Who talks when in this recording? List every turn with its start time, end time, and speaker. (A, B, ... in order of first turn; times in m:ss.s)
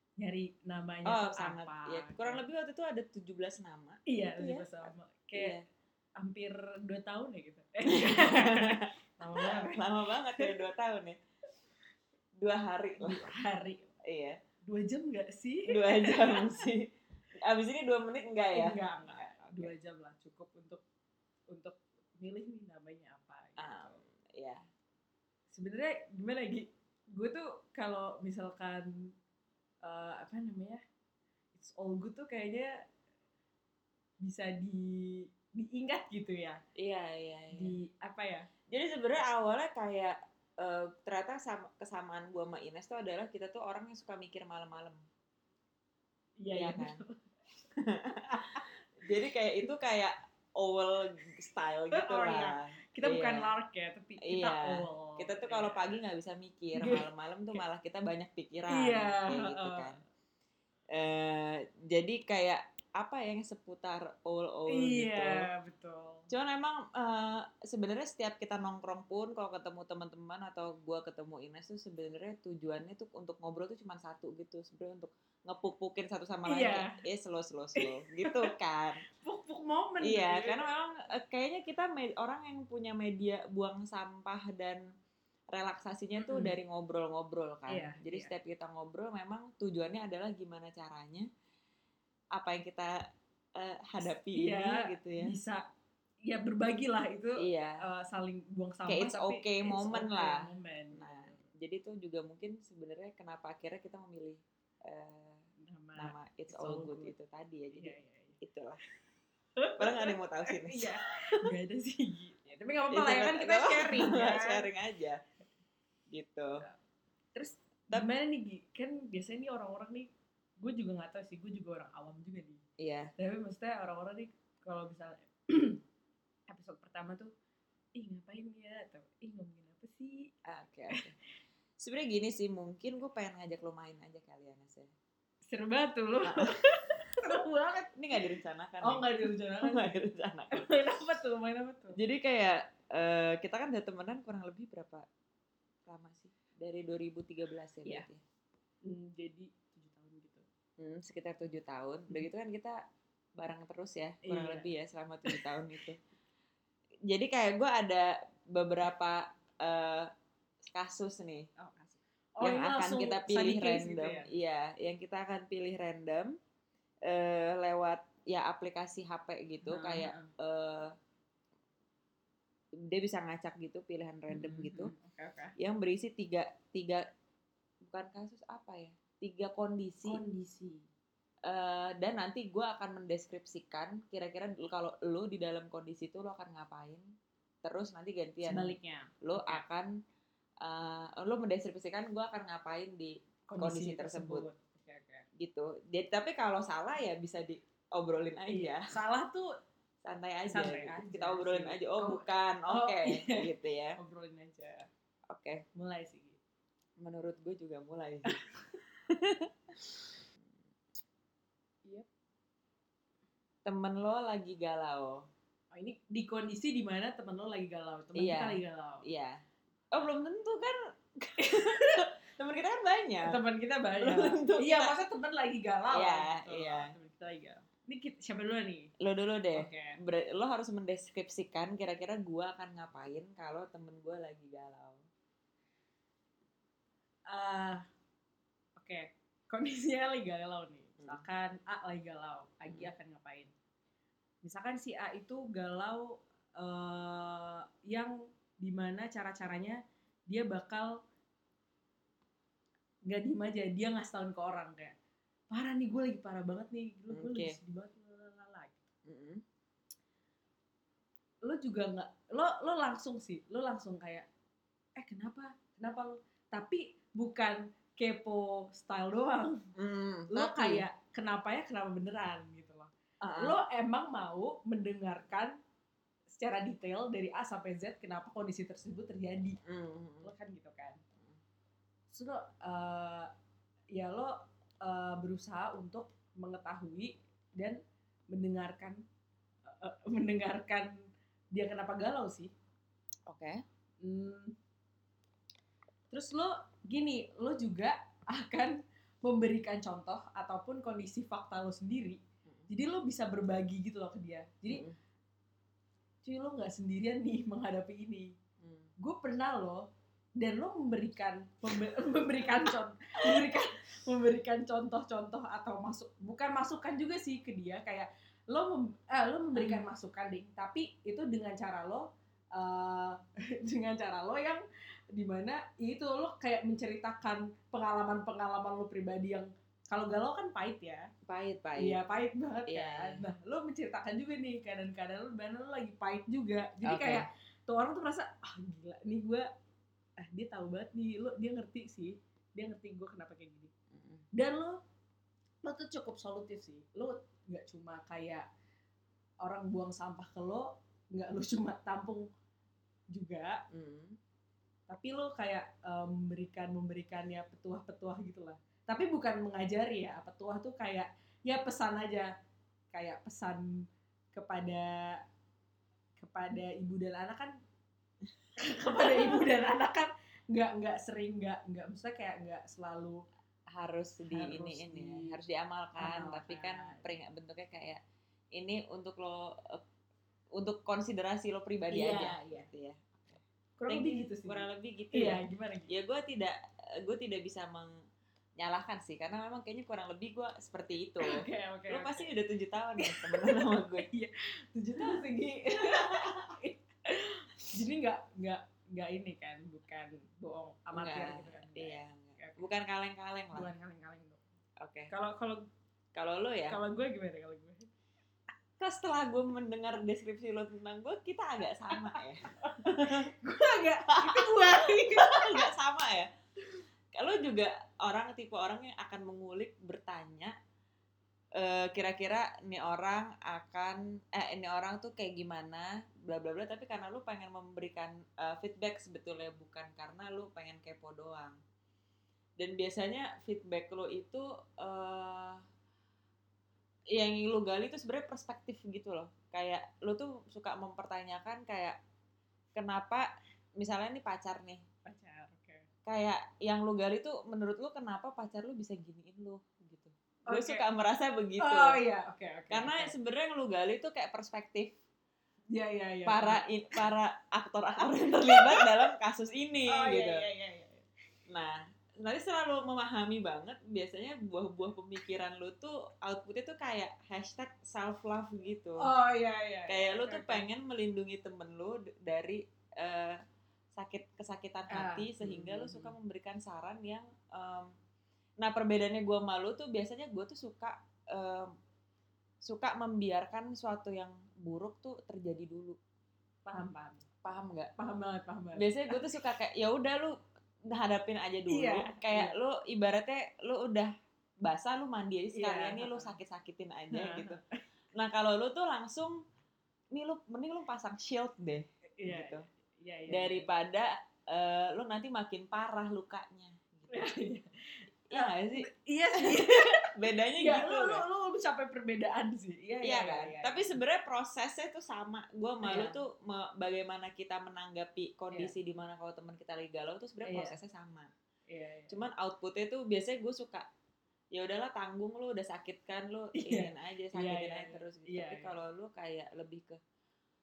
0:00.2-0:02.4 A
0:01.1-0:05.6 B
0:04.1-0:05.6 A
0:06.2-0:09.9 A
0:07.9-0:11.2 B
0:12.4-0:13.4 B
0:13.0-0:13.9 A
0:14.0-0:14.4 B
0:14.7-0:16.6 A
0:15.7-0:19.7 B
0:18.5-0:20.8 A
0:21.5-0:24.0 A
0:23.6-0:24.6 B
0:25.5-0:29.1 A
0:29.8-0:30.8 A
0:31.6-0:32.8 A
0:34.2-0:36.6 A
0:36.8-0:37.7 B
0:37.5-0:38.5 A
0:38.7-0:45.0 B
0:46.4-0:47.2 A
0:46.5-0:47.0 B
0:47.8-0:53.5 B
0:48.2-0:48.6 A
0:51.9-0:56.0 A
0:54.2-1:00.0 B
0:56.8-0:57.1 A
0:58.7-1:00.0 A
1:00.9-1:05.5 B
1:04.7-1:06.3 A
1:06.3-1:19.0 B
1:16.4-1:17.0 A
1:17.8-1:18.5 A
1:19.2-1:20.7 A
1:20.0-1:24.8 B
1:25.5-1:31.3 B
1:26.2-1:26.5 A
1:27.7-1:28.3 A
1:32.4-1:33.0 B
1:33.6-1:35.4 B
1:34.3-1:35.7 A
1:36.2-1:41.4 A
1:37.4-1:37.8 B
1:38.9-1:45.4 B
1:45.6-1:47.1 A
1:46.0-1:48.8 B
1:47.7-1:48.9 A
1:49.6-1:54.7 A
1:49.8-1:51.5 B
1:52.9-1:55.2 B
1:56.1-1:56.6 B
1:57.4-2:02.6 A
2:02.8-2:03.1 B
2:03.2-2:05.8 A
2:06.5-2:07.3 A
2:08.0-2:10.3 A
2:10.4-2:11.1 B
2:11.8-2:14.9 B
2:15.4-2:22.0 A
2:16.2-2:16.6 B
2:17.9-2:20.9 B
2:21.9-2:25.1 B
2:25.9-2:28.2 B
2:28.8-2:30.4 A
2:30.8-2:32.8 B
2:33.4-2:36.0 B
2:34.2-2:34.7 A
2:37.1-2:40.1 B
2:40.6-2:41.5 B
2:41.6-2:44.3 A
2:42.4-2:46.4 B
2:47.0-2:50.9 B
2:49.6-2:50.3 A
2:52.9-2:54.9 B
2:54.3-2:55.6 A
2:55.6-2:57.1 B
2:57.8-3:00.2 B
3:00.0-3:00.9 A
3:01.4-3:07.1 B
3:07.6-3:09.9 B
3:08.4-3:09.6 A
3:10.6-3:14.5 B
3:13.5-3:15.2 A
3:15.4-3:18.9 B
3:18.5-3:19.5 A
3:20.0-3:24.0 B
3:20.5-3:24.9 A
3:25.3-3:25.6 B
3:25.8-3:26.4 A
3:27.0-3:30.2 B
3:28.2-3:28.6 A
3:33.6-3:35.3 B
3:35.7-3:39.1 A
3:38.1-3:43.4 B
3:41.4-3:42.1 A
3:43.2-3:48.9 A
3:44.0-3:44.9 B
3:45.9-3:46.9 B
3:49.0-3:55.0 B
3:49.6-3:50.0 A
3:57.3-3:57.8 A
3:58.8-4:03.5 A
4:04.4-4:11.0 A
4:13.1-4:14.9 A
4:15.5-4:18.8 A
4:17.1-4:17.6 B
4:19.1-4:19.4 B
4:21.4-4:24.3 A
4:25.0-4:29.7 A
4:29.8-4:30.8 B
4:30.3-4:35.6 A
4:33.2-4:33.6 B
4:36.3-4:39.6 A
4:39.6-4:40.3 B
4:40.2-4:41.0 A
4:42.1-4:43.3 A
4:43.9-4:49.0 A
4:49.6-4:51.0 A
4:51.5-4:52.5 A
4:53.3-4:53.6 B
4:54.0-4:54.6 A
4:56.1-5:04.9 A
5:04.7-5:05.0 B
5:06.2-5:08.4 A
5:08.6-5:08.9 B
5:09.0-5:31.1 A
5:19.5-5:19.9 B
5:31.2-5:32.0 B
5:31.8-5:39.5 A
5:32.7-5:33.2 B
5:36.8-5:37.2 B
5:40.2-5:43.7 A
5:43.9-5:44.2 B
5:44.3-5:44.8 A
5:45.6-5:48.5 A
5:49.4-5:52.3 A
5:53.1-5:53.6 A
5:53.7-5:54.2 B
5:54.9-6:02.3 A
6:02.9-6:05.2 A
6:06.2-6:07.6 A
6:08.6-6:13.2 A
6:13.7-6:18.0 B
6:14.3-6:15.4 A
6:16.0-6:17.1 A
6:18.5-6:19.8 B
6:20.5-6:28.0 B
6:21.9-6:22.7 A
6:23.8-6:25.9 A
6:28.6-6:34.1 B
6:31.2-6:32.3 A
6:33.0-6:42.6 A
6:35.8-6:36.5 B
6:40.9-6:43.7 B
6:43.5-6:44.4 A
6:44.8-6:45.1 B
6:45.1-6:45.6 A
6:46.1-6:46.8 B
6:46.7-6:47.9 A
6:48.8-6:53.3 B
6:51.9-6:55.7 A
6:54.1-6:56.3 B
6:57.1-7:00.5 B
7:01.6-7:11.6 B
7:12.6-7:15.6 B
7:17.1-7:22.0 B
7:22.8-7:24.8 B
7:25.0-7:25.9 A
7:26.0-7:32.0 B
7:30.5-7:30.9 A
7:31.6-7:33.1 A
7:32.7-7:35.0 B
7:35.7-7:36.6 A
7:36.2-7:40.4 B
7:38.2-7:38.9 A
7:39.9-7:41.1 A
7:41.5-7:49.1 B
7:49.0-7:50.6 A
7:49.9-7:53.4 B
7:53.9-7:57.9 B
7:54.9-7:56.1 A
7:58.6-8:01.7 B
8:02.6-8:06.0 B
8:06.6-8:07.2 A
8:07.4-8:07.9 B
8:08.0-8:09.4 A
8:08.8-8:17.6 B
8:11.7-8:12.5 A
8:15.5-8:16.4 A
8:17.1-8:17.6 A
8:18.1-8:19.4 B
8:20.1-8:22.6 B
8:22.2-8:23.7 A
8:23.3-8:27.3 B
8:27.1-8:34.0 A
8:28.3-8:31.2 B
8:33.0-8:41.3 B
8:35.8-8:36.2 A
8:40.4-8:40.8 A
8:41.7-8:42.2 A
8:42.1-8:43.9 B
8:44.5-8:50.0 B
8:46.5-8:48.8 A